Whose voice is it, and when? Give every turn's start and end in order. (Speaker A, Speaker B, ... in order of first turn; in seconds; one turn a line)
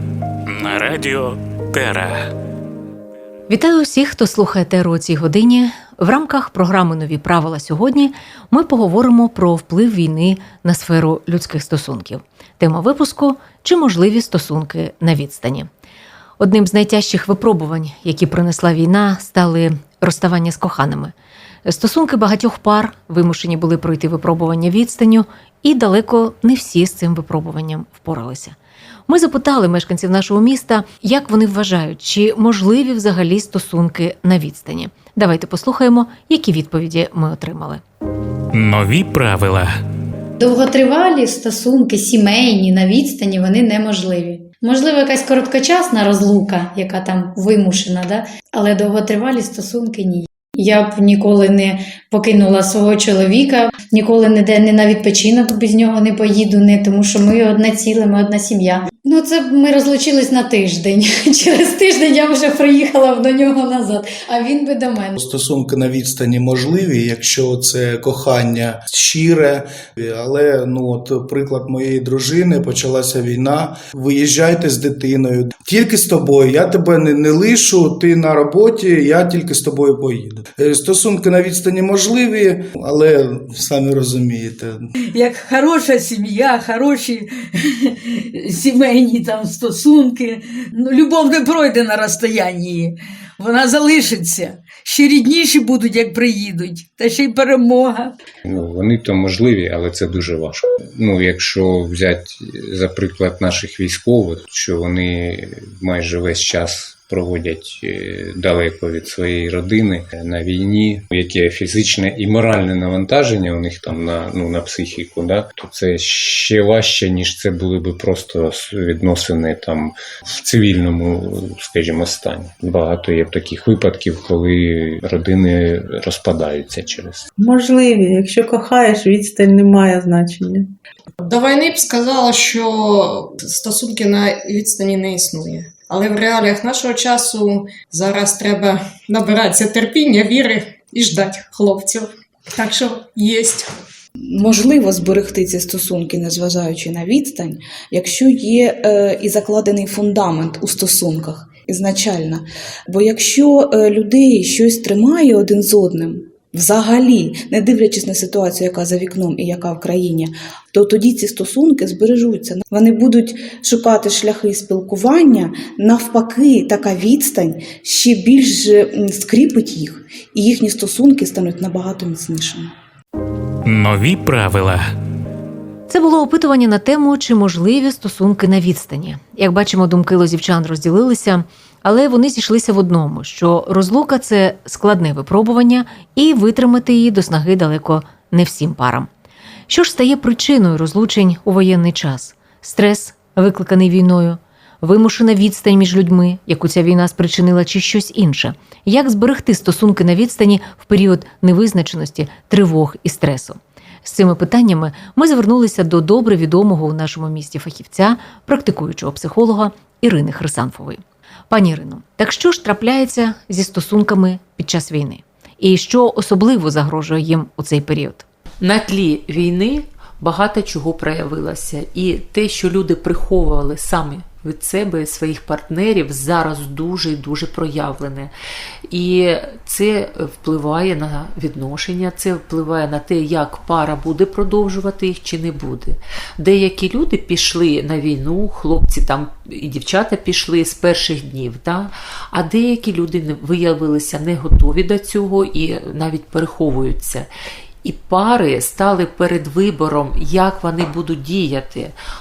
Speaker A: 0.5-2.3
Speaker B: 3.5-15.7
Speaker B: 16.4-21.1
Speaker B: 21.6-28.6
Speaker B: 29.1-37.8
Speaker A: 38.5-39.7
Speaker C: 40.4-65.2
Speaker D: 65.2-84.9
Speaker E: 85.1-98.2
Speaker F: 98.5-127.3
Speaker G: 127.4-130.7
Speaker H: 131.2-143.7
Speaker I: 144.2-172.7
Speaker A: 173.7-174.9
Speaker B: 175.9-189.1
Speaker B: 189.7-218.2
Speaker J: 218.6-228.3
Speaker J: 228.9-247.3
Speaker J: 247.8-251.9